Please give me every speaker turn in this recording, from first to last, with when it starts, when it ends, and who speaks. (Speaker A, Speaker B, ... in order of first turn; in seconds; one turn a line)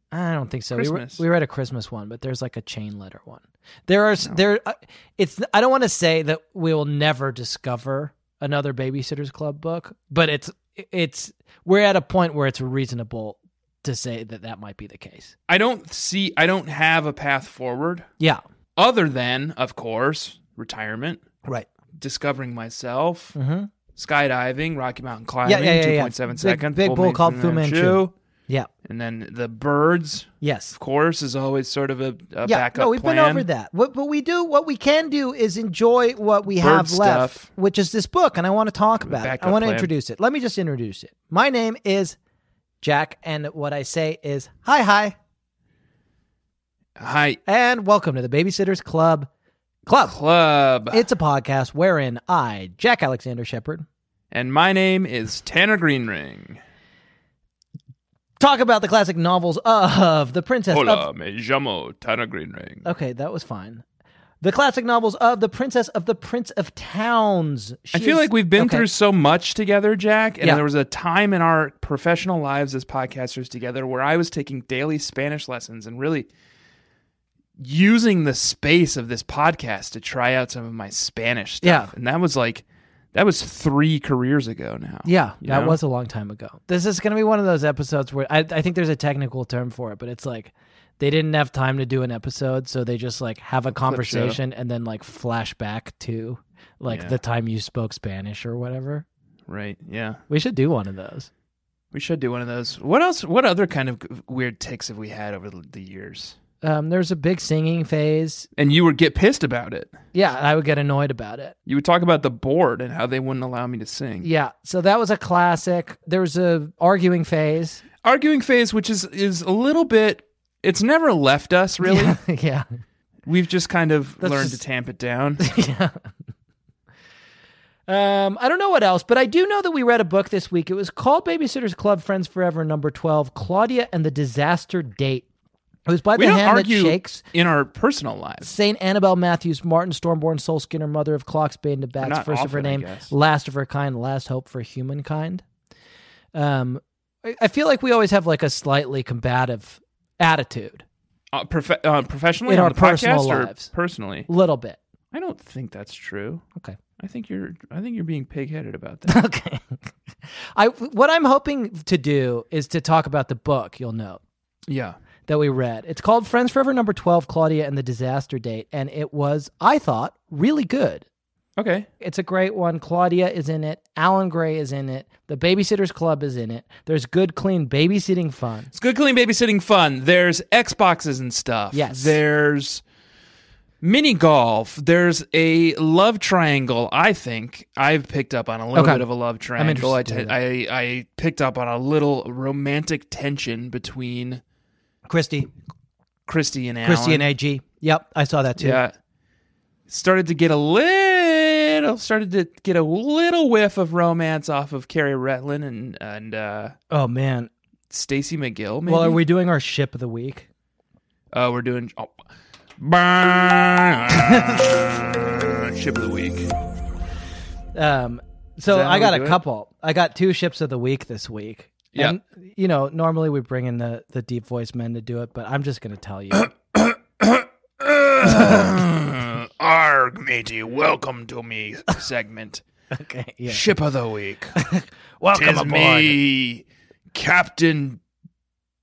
Speaker A: 0.1-15.3
Speaker B: 0.7-1.2
Speaker B: 15.5-18.1
Speaker B: 18.8-23.4
Speaker A: 23.4-23.7
Speaker B: 23.9-28.1
Speaker A: 25.4-28.7
Speaker B: 28.8-33.5
Speaker A: 30.4-30.8
Speaker A: 32.5-42.2
Speaker B: 36.6-37.5
Speaker B: 39.0-39.9
Speaker A: 42.8-45.1
Speaker B: 47.0-47.4
Speaker A: 47.5-49.3
Speaker A: 49.9-50.2
Speaker B: 50.0-51.0
Speaker A: 50.9-53.9
Speaker B: 54.3-56.6
Speaker A: 58.4-61.0
Speaker B: 60.7-62.9
Speaker A: 62.8-63.8
Speaker A: 64.4-68.9
Speaker B: 67.9-76.3
Speaker B: 77.6-85.8
Speaker A: 81.6-81.9
Speaker A: 85.0-99.0
Speaker B: 93.8-94.4
Speaker B: 96.9-97.2
Speaker B: 99.5-100.2
Speaker A: 100.3-101.3
Speaker B: 101.9-106.4
Speaker A: 106.6-108.5
Speaker B: 108.6-110.0
Speaker A: 110.1-111.5
Speaker B: 111.7-114.3
Speaker A: 114.2-117.8
Speaker B: 118.0-122.2
Speaker A: 121.8-122.7
Speaker B: 123.3-125.4
Speaker A: 124.2-124.6
Speaker A: 125.4-126.1
Speaker A: 127.9-135.3
Speaker A: 135.9-137.2
Speaker B: 136.2-138.5
Speaker A: 138.4-145.4
Speaker B: 142.0-143.1
Speaker A: 146.3-150.8
Speaker B: 151.3-154.3
Speaker A: 152.5-153.7
Speaker A: 154.3-154.8
Speaker B: 155.1-156.4
Speaker B: 157.0-159.2
Speaker A: 159.1-159.8
Speaker A: 160.6-164.2
Speaker B: 164.7-165.0
Speaker A: 165.3-171.0
Speaker B: 171.6-171.9
Speaker A: 172.0-178.7
Speaker B: 178.7-182.8
Speaker A: 181.7-182.2
Speaker B: 183.8-194.4
Speaker A: 188.8-190.4
Speaker A: 195.1-195.5
Speaker B: 196.3-197.3
Speaker A: 196.8-198.8
Speaker B: 198.6-198.9
Speaker B: 199.9-206.8
Speaker A: 206.9-207.5
Speaker B: 207.9-209.2
Speaker A: 208.9-210.5
Speaker B: 211.3-212.2
Speaker B: 212.8-216.5
Speaker A: 214.2-214.6
Speaker A: 217.8-226.5
Speaker B: 218.7-219.4
Speaker B: 226.3-232.6
Speaker A: 228.2-228.7
Speaker A: 232.9-233.7
Speaker B: 233.5-234.6
Speaker A: 234.6-236.2
Speaker B: 235.3-238.0